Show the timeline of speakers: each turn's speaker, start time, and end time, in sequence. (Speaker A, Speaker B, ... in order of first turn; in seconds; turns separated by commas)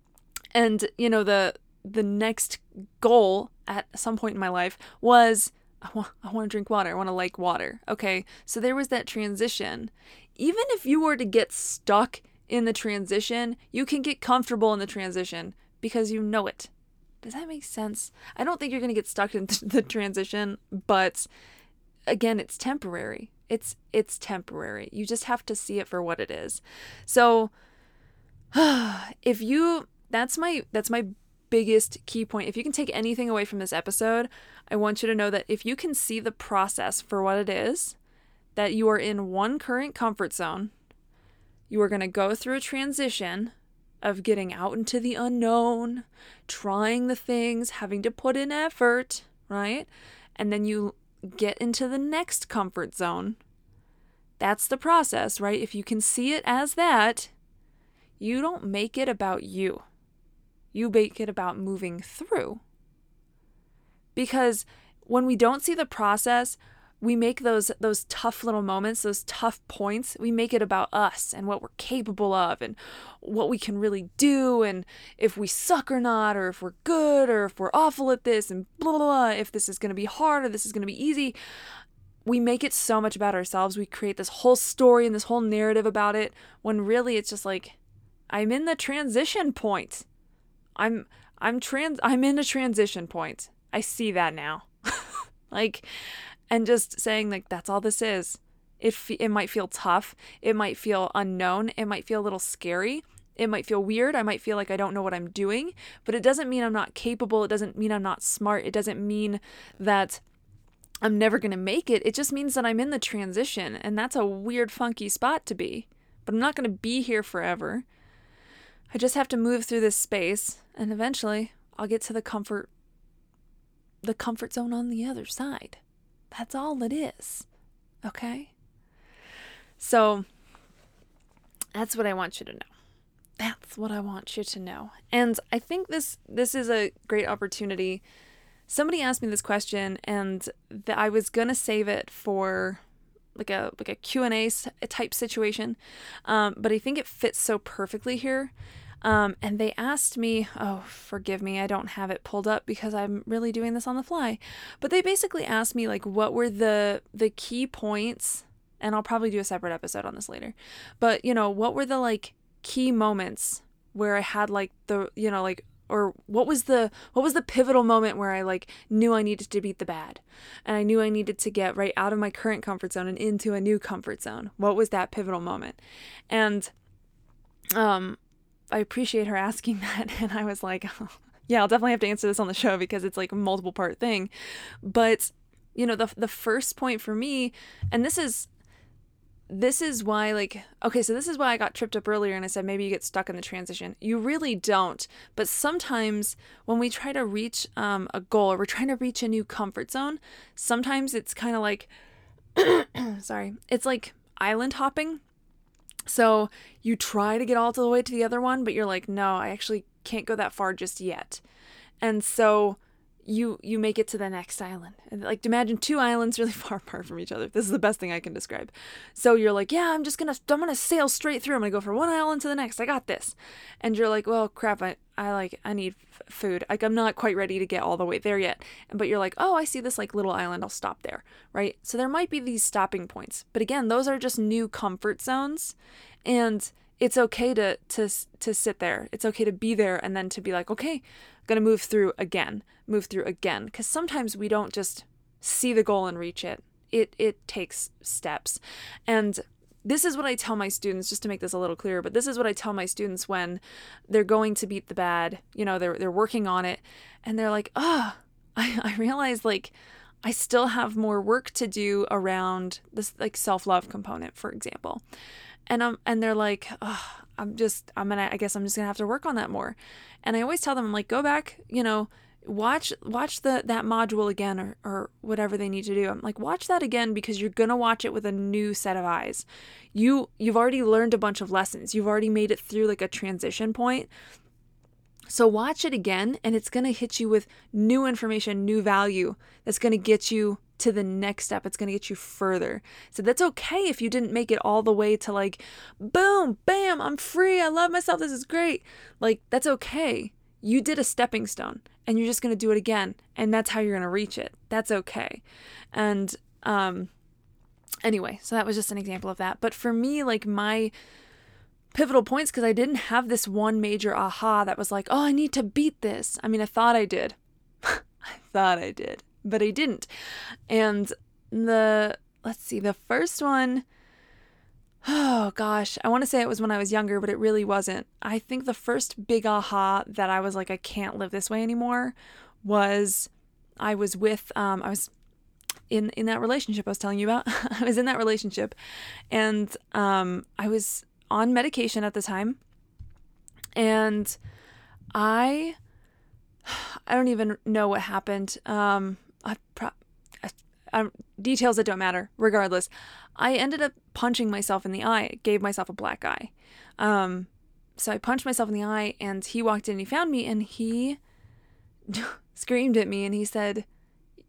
Speaker A: 0.5-16.7, Speaker A: 17.2-21.3, Speaker A: 22.1-27.5, Speaker A: 28.5-38.0, Speaker A: 38.5-40.7, Speaker A: 41.7-53.4, Speaker A: 54.4-57.3, Speaker A: 58.2-59.8, Speaker A: 60.7-62.6, Speaker A: 64.1-81.3, Speaker A: 82.2-87.8, Speaker A: 88.3-90.0, Speaker A: 90.8-95.8, Speaker A: 96.5-110.2, Speaker A: 111.0-117.8, Speaker A: 118.9-122.7, Speaker A: 124.0-125.8, Speaker A: 126.3-127.5, Speaker A: 128.0-128.5, Speaker A: 129.8-130.2, Speaker A: 131.7-132.7, Speaker A: 133.4-138.0, Speaker A: 138.7-142.8, Speaker A: 143.3-175.8, Speaker A: 176.3-176.7, Speaker A: 177.7-178.2, Speaker A: 178.7-184.3, Speaker A: 184.8-188.5, Speaker A: 189.5-201.9, Speaker A: 202.5-205.2, Speaker A: 206.1-211.4, Speaker A: 212.0-265.0, Speaker A: 265.7-284.1, Speaker A: 285.3-307.1, Speaker A: 308.0-310.9, Speaker A: 311.9-320.1, Speaker A: 320.7-323.8, Speaker A: 325.0-333.3, Speaker A: 333.8-335.1, Speaker A: 335.9-338.7, Speaker A: 339.3-342.6, Speaker A: 343.8-344.4, Speaker A: 345.1-345.8, Speaker A: 346.6-361.2, Speaker A: 362.1-363.9